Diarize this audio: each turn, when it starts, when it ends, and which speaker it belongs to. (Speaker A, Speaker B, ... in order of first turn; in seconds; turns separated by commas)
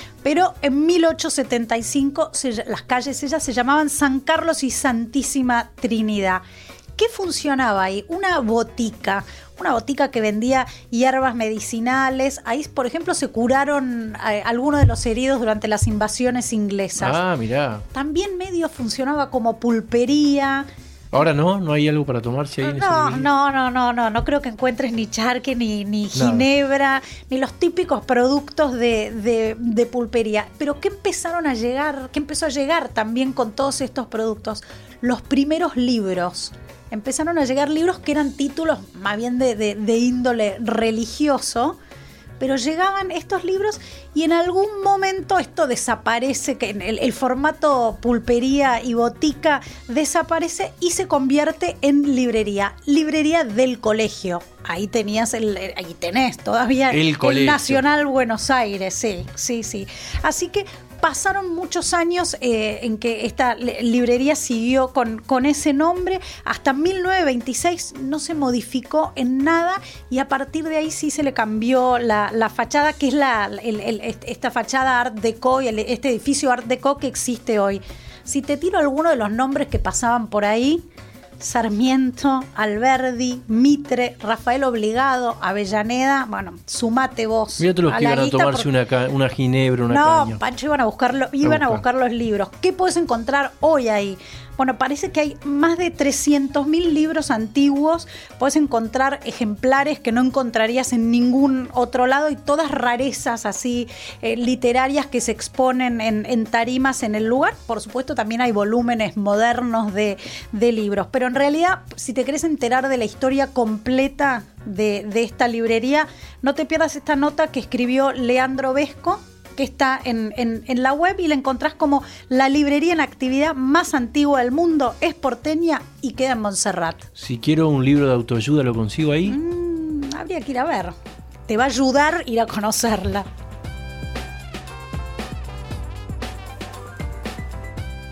Speaker A: 0.2-6.4, Speaker A: 7.0-17.2, Speaker B: 17.0-17.9, Speaker A: 17.9-20.6, Speaker B: 21.1-23.3, Speaker A: 22.6-41.8, Speaker B: 26.1-26.5, Speaker A: 42.4-80.8, Speaker B: 56.9-57.8, Speaker A: 81.4-88.7, Speaker B: 87.6-90.4, Speaker A: 89.9-127.0, Speaker B: 91.4-91.8, Speaker B: 127.2-129.4, Speaker A: 129.2-130.9, Speaker A: 131.5-133.2